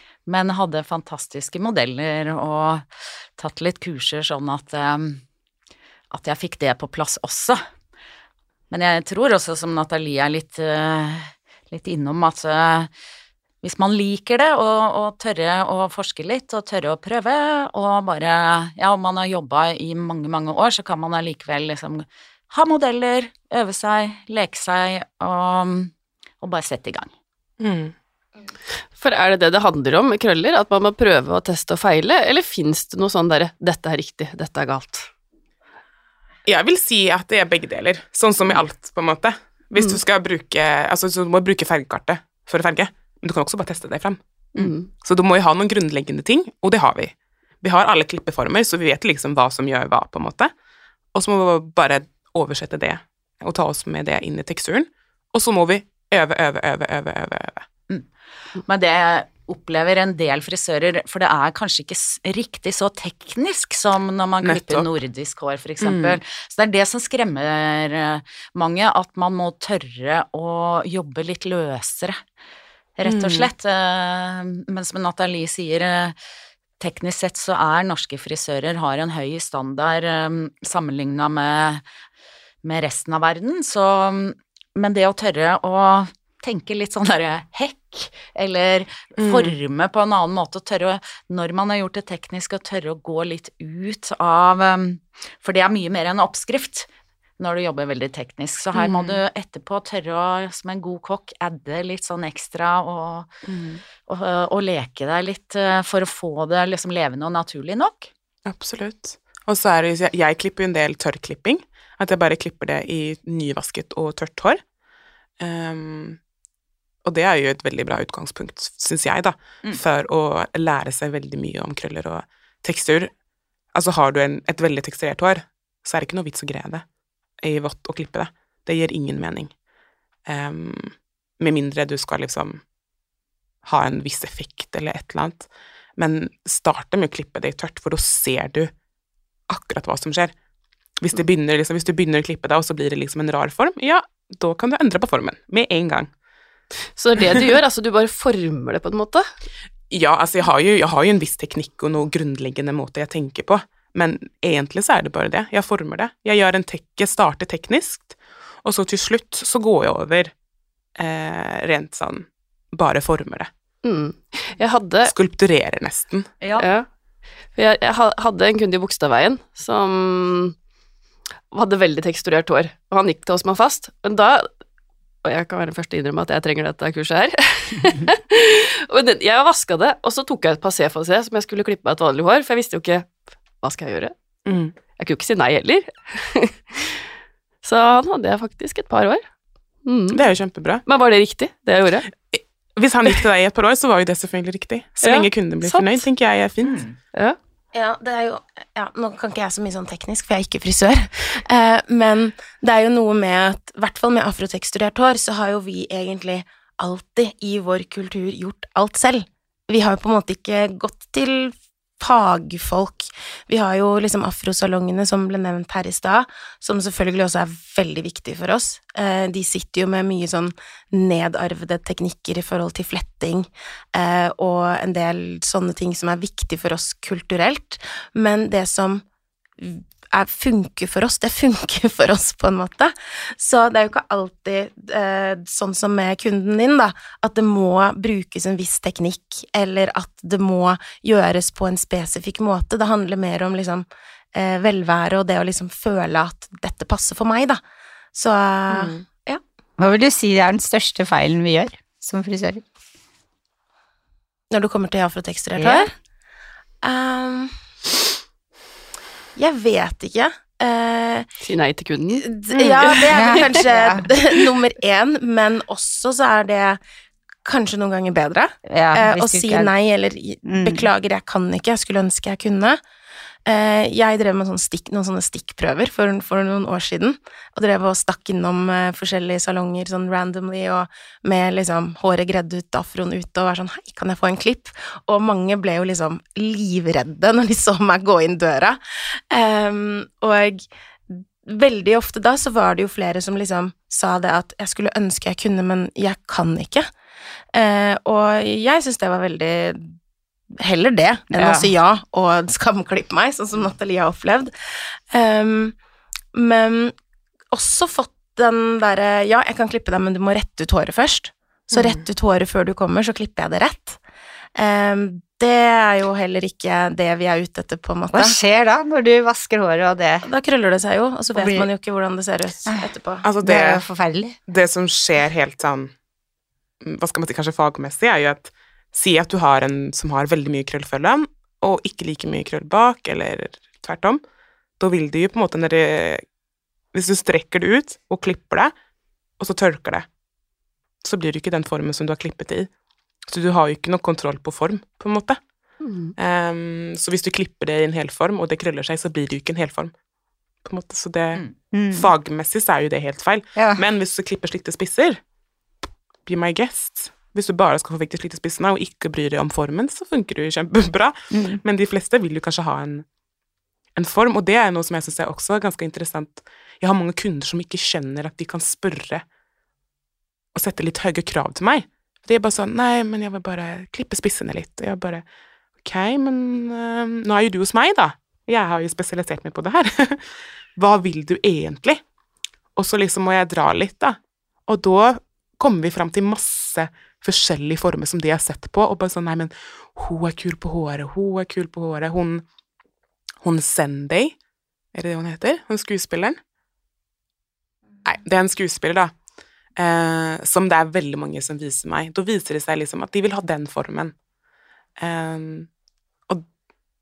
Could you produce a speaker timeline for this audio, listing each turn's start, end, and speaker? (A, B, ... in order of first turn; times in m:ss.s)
0:00.3-0:02.8 A
0:03.4-0:05.2 A
0:06.1-0:07.6 A
0:08.7-0:12.9 A
0:13.6-0:27.1 A
0:27.6-0:27.9 B
0:29.0-0:35.1 C
0:36.5-0:44.2 B
0:44.6-0:44.9 C
0:45.0-0:50.5 B
0:51.1-0:57.7 B
0:58.6-1:12.2 A
1:04.4-1:04.9 B
1:05.8-1:06.2 B
1:13.0-1:16.2 A
1:13.0-1:13.5 B
1:16.8-1:21.8 A
1:22.6-1:43.3 A
1:29.2-1:29.6 B
1:38.7-1:39.2 B
1:43.5-1:43.8 B
1:44.0-1:48.1 A
1:48.5-1:54.6 B
1:55.4-1:56.2 B
1:57.0-2:03.1 B
2:03.7-2:06.8 B
2:07.4-2:09.5 B
2:10.3-2:12.6 B
2:13.6-2:18.7 B
2:19.5-2:20.3 B
2:21.0-2:26.1 B
2:27.0-2:29.3 C
2:29.9-2:40.3 B
2:41.0-2:43.5 B
2:43.8-2:45.1 C
2:45.0-2:46.3 B
2:46.6-2:46.9 C
2:47.6-2:50.6 C
2:51.5-2:54.5 C
2:55.2-3:04.2 C
3:04.5-3:04.7 B
3:05.0-3:07.0 C
3:07.6-3:09.2 C
3:09.9-3:10.2 C
3:10.1-3:10.8 B
3:10.9-3:12.1 C
3:12.3-3:16.9 B
3:15.0-3:16.0 C
3:17.7-3:49.0 D
3:49.6-4:07.6 D
4:08.1-4:09.4 D
4:08.7-4:09.0 B
4:09.8-4:12.6 E
4:14.5-4:15.9 D
4:16.8-4:17.5 D
4:19.4-4:21.3 D
4:21.4-4:23.6 C
4:22.2-4:26.8 D
4:23.1-4:24.1 E
4:27.5-4:32.8 D
4:28.7-4:29.7 E
4:30.5-4:30.9 E
4:33.5-4:56.9 D
4:57.5-4:59.9 D
5:00.6-5:04.5 D
5:05.1-5:05.8 D
5:06.4-5:06.9 D
5:07.5-5:14.0 D
5:14.6-5:18.4 D
5:18.1-5:20.3 E
5:20.2-5:23.3 D
5:21.4-5:21.7 E
5:23.2-5:23.8 B
5:23.4-5:24.4 E
5:24.5-5:25.9 B
5:26.8-5:34.2 B
5:34.8-5:36.2 B
5:36.9-5:38.7 B
5:39.4-5:40.1 B
5:41.0-5:42.7 B
5:43.3-5:45.4 B
5:45.8-5:46.2 C
5:46.2-5:49.9 B
5:50.6-5:55.2 B
5:51.7-5:52.1 E
5:53.6-5:53.8 E
5:56.2-6:03.0 B
6:01.3-6:01.6 E
6:04.0-6:09.2 B
6:10.5-6:15.2 B
6:15.8-6:22.0 B
6:22.8-6:32.4 B
6:33.4-6:34.4 B
6:34.9-6:36.4 B
6:38.0-6:39.1 B
6:39.8-6:44.1 B
6:45.0-6:45.7 B